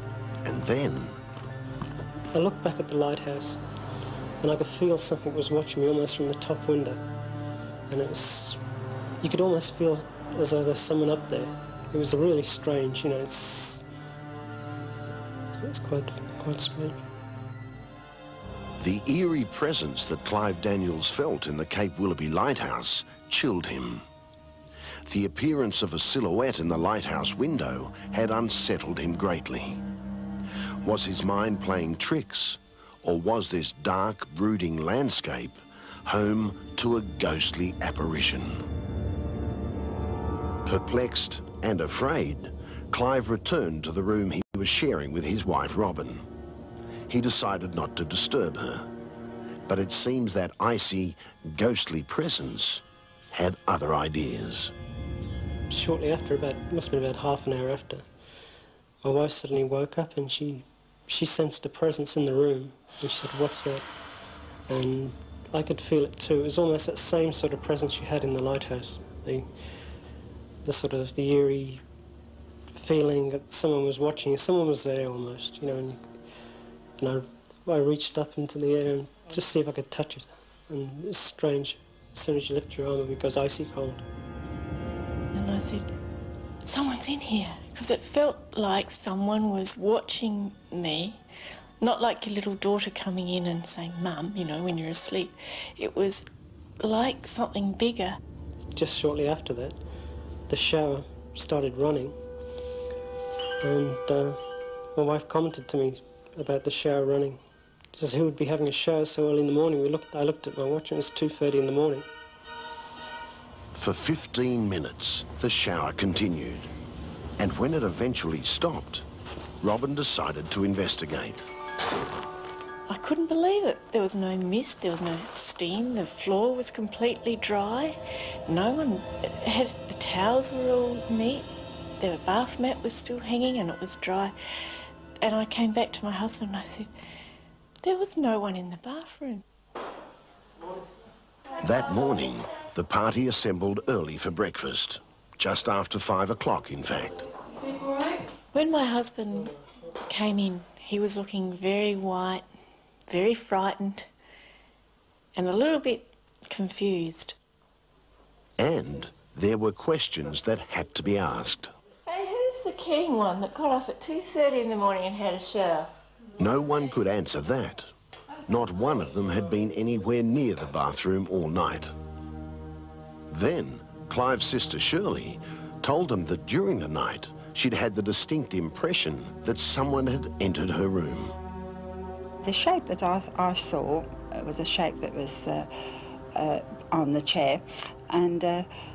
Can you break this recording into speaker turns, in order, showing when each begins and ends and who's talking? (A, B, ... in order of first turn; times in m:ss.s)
0:00.4-0:01.2 A
0:02.3-0:03.6 B
0:04.4-0:07.0 B
0:07.9-0:08.6 B
0:09.2-0:13.9 B
0:15.6-0:17.0 B
0:18.8-0:24.0 A
0:25.1-0:29.8 A
0:30.8-0:38.6 A
0:40.6-0:46.2 A
0:47.1-0:48.9 A
0:49.7-0:54.7 A
0:55.7-0:58.0 B
0:59.0-1:03.8 B
1:04.7-1:09.5 B
1:10.6-1:11.8 B
1:12.7-1:16.1 B
1:17.0-1:24.0 B
1:25.3-1:25.9 C
1:26.6-1:31.2 C
1:31.8-1:36.2 C
1:36.8-1:38.2 C
1:38.7-1:39.8 B
1:40.5-1:42.2 B
1:43.6-1:44.4 B
1:44.9-1:47.4 B
1:47.9-1:52.0 B
1:53.7-1:56.7 A
1:57.4-1:59.0 A
1:59.6-2:01.5 A
2:02.9-2:11.5 C
2:12.0-2:14.3 C
2:15.2-2:16.9 C
2:17.8-2:19.4 C
2:21.6-2:27.3 A
2:28.5-2:29.6 C
2:30.1-2:32.4 C
2:33.1-2:34.1 C
2:35.4-2:37.4 C
2:38.6-2:41.7 A
2:42.0-2:45.9 C
2:46.4-2:47.9 A
2:48.4-2:51.9 A
2:53.3-3:01.3 A
3:02.4-3:05.7 D
3:06.3-3:08.7 D